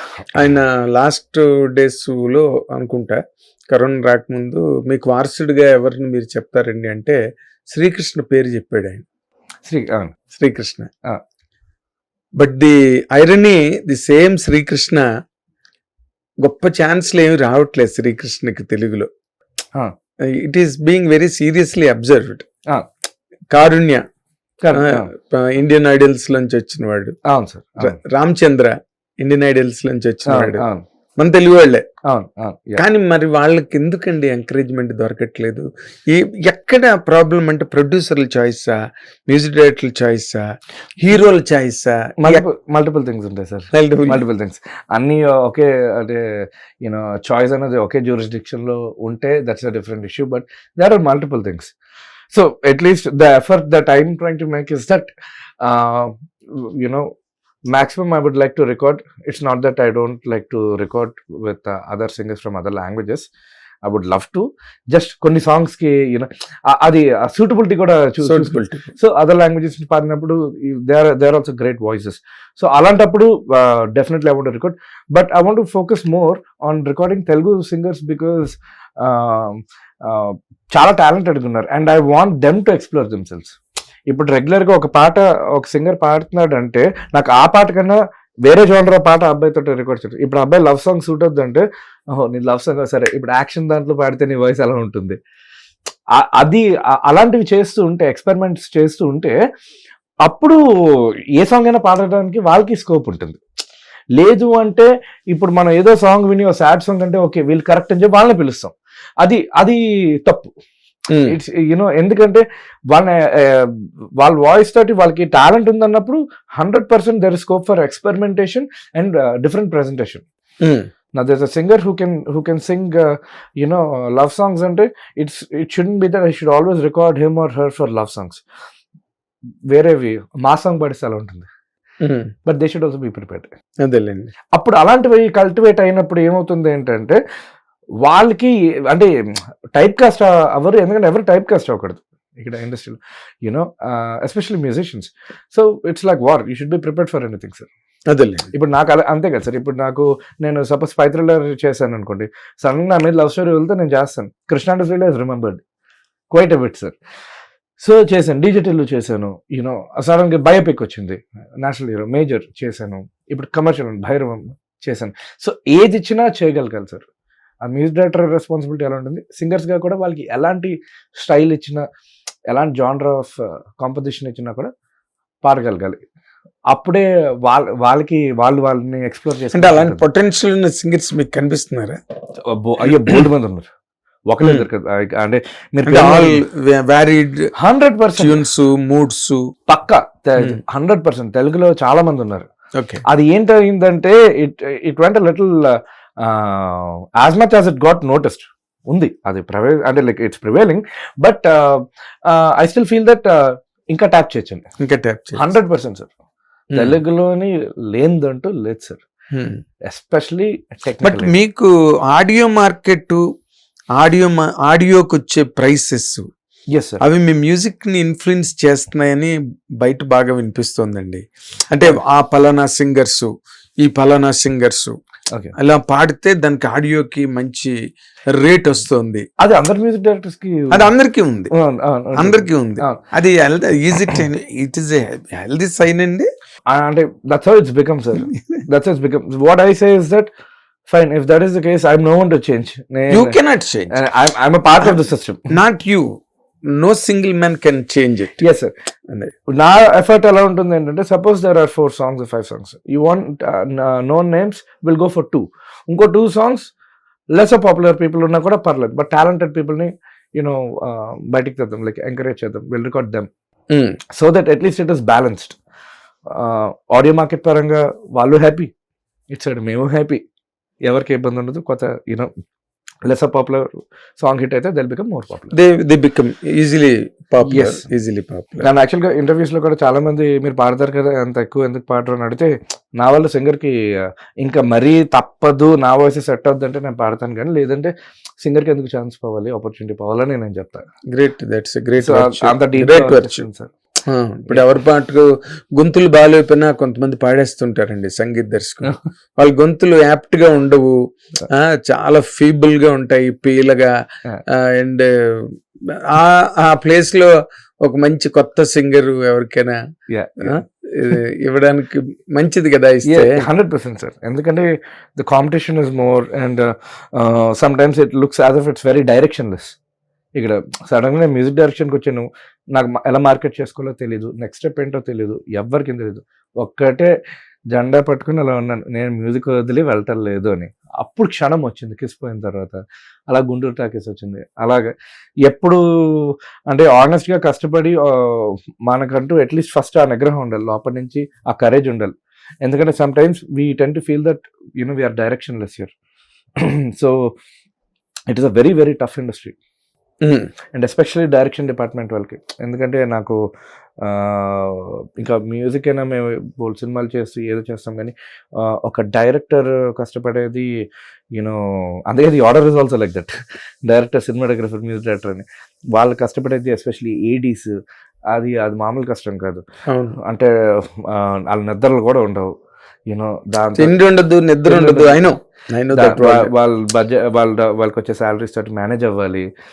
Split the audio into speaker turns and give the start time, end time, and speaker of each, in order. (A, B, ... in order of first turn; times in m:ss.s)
0:00.3-0:03.2 A
0:03.7-0:07.2 A
0:07.7-0:09.0 A
0:09.6-0:10.1 B
0:10.3-0:10.9 A
0:12.4-0:15.0 A
0:16.4-0:19.1 A
0:20.3-0:22.4 A
0:23.5-0:24.0 A
0:24.6-0:25.1 B
0:24.7-0:27.1 A
0:27.3-0:27.9 B
0:27.8-0:30.6 A
0:30.3-0:30.8 B
0:31.2-0:31.8 A
0:32.1-0:32.8 B
0:32.8-0:38.8 A
0:39.3-0:40.4 A
0:41.0-0:42.4 A
0:42.2-0:51.7 B
0:43.7-0:44.2 A
0:52.3-0:57.1 B
0:57.7-1:03.3 B
1:03.8-1:23.6 B
1:08.2-1:08.9 A
1:24.1-1:35.2 B
1:36.2-1:39.3 B
1:40.2-1:40.6 B
1:41.4-1:43.4 B
1:44.2-1:50.5 B
1:51.3-2:00.2 B
2:00.6-2:00.9 A
2:01.1-2:08.4 B
2:09.7-2:11.5 B
2:12.0-2:12.3 A
2:12.4-2:13.5 B
2:13.8-2:14.3 A
2:14.5-2:17.2 B
2:18.0-2:19.1 B
2:19.8-2:27.7 B
2:28.1-2:28.5 A
2:28.5-2:35.6 B
2:36.3-2:37.0 B
2:37.8-2:47.0 B
2:47.6-2:51.8 B
2:52.5-2:54.7 B
2:55.4-2:56.0 B
2:56.7-3:00.0 B
2:59.5-3:02.0 A
3:02.4-3:03.7 B
3:04.3-3:06.4 B
3:04.4-3:04.6 A
3:05.9-3:07.5 A
3:07.6-3:08.4 B
3:08.2-3:09.4 A
3:09.7-3:12.5 B
3:12.7-3:13.0 A
3:13.1-3:24.7 B
3:24.8-3:25.5 A
3:25.4-3:26.1 B
3:26.7-3:29.0 B
3:29.3-3:29.6 A
3:29.8-3:31.3 B
3:31.0-3:33.2 A
3:34.0-3:36.3 A
3:36.7-3:37.0 B
3:37.0-3:45.0 A
3:45.6-3:47.7 A
3:48.4-3:49.3 A
3:49.4-3:50.9 B
3:50.7-3:51.5 A
3:51.5-3:53.0 B
3:52.2-3:56.3 A
3:56.7-4:00.3 B
4:00.9-4:03.4 B
4:03.1-4:03.9 A
4:03.9-4:05.5 B
4:05.5-4:08.4 A
4:08.4-4:08.7 B
4:09.5-4:16.7 B
4:17.3-4:23.3 B
4:23.7-4:24.0 A
4:24.1-4:25.6 B
4:26.3-4:28.7 B
4:29.3-4:30.2 B
4:30.8-4:32.3 B
4:33.0-4:35.5 B
4:35.5-4:38.7 A
4:37.5-4:37.8 B
4:38.6-4:43.7 B
4:44.4-4:50.8 B
4:51.1-4:53.4 A
4:52.0-4:53.7 B
4:54.1-5:00.9 A
5:01.5-5:03.9 A
5:04.5-5:05.5 A
5:06.1-5:07.3 A
5:07.8-5:09.8 A
5:10.1-5:10.6 B
5:10.4-5:13.4 A
5:13.1-5:19.7 B
5:20.4-5:27.1 B
5:27.7-5:34.9 B
5:35.4-5:45.9 B
5:46.6-5:47.3 B
5:48.3-5:49.6 B
5:50.2-5:50.5 A
5:50.7-5:53.4 B
5:54.0-6:00.7 B
6:01.3-6:03.3 B
6:03.8-6:07.7 B
6:08.3-6:09.6 B
6:09.9-6:10.2 A
6:10.2-6:12.5 B
6:13.1-6:14.0 B
6:13.8-6:16.5 A
6:14.6-6:15.3 B
6:15.9-6:19.4 B